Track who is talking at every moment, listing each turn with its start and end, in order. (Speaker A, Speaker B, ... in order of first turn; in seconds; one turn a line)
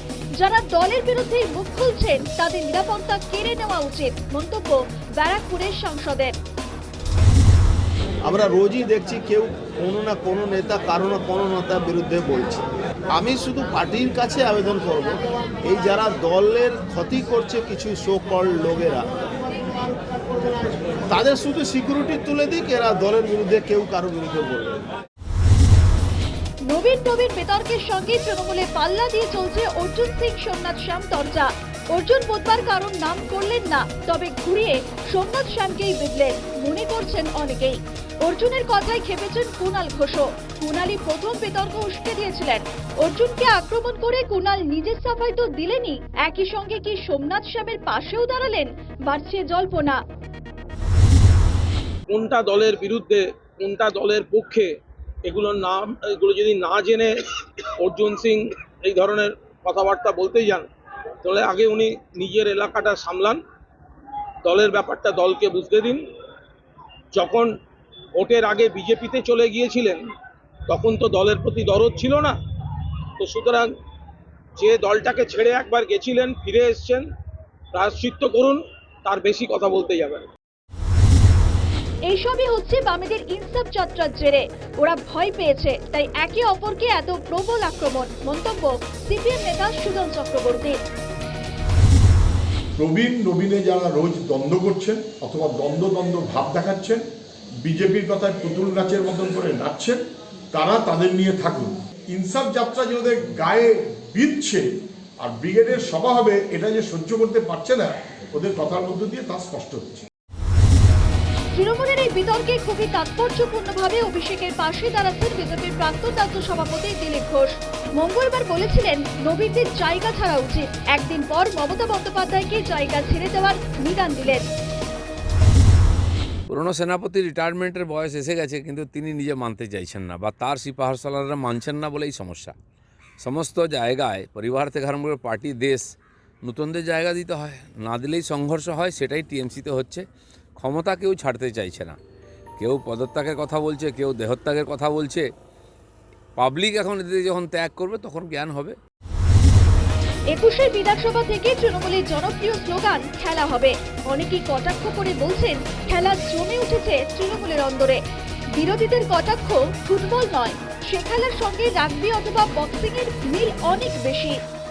Speaker A: 0.4-6.3
Speaker B: 8.2-19.1
Speaker B: 21.1-24.9
Speaker A: 26.7-50.0
Speaker C: 52.1-54.7
Speaker C: 55.2-57.1
Speaker C: 57.8-60.6
Speaker C: 61.2-63.4
Speaker C: 64.4-66.0
Speaker C: 67.2-67.5
Speaker C: 68.2-70.0
Speaker C: 70.7-72.3
Speaker C: 73.2-73.7
Speaker C: 74.6-77.0
Speaker C: 77.8-80.1
Speaker A: 82.1-90.8
Speaker D: 92.8-97.0
Speaker D: 97.6-100.0
Speaker D: 100.5-104.7
Speaker D: 105.2-110.0
Speaker A: 111.5-124.4
Speaker E: 126.5-132.5
Speaker E: 133.2-135.8
Speaker E: 136.4-140.0
Speaker E: 140.6-141.9
Speaker E: 142.6-145.2
Speaker E: 146.4-148.8
Speaker A: 150.3-158.0
Speaker A: 158.6-164.3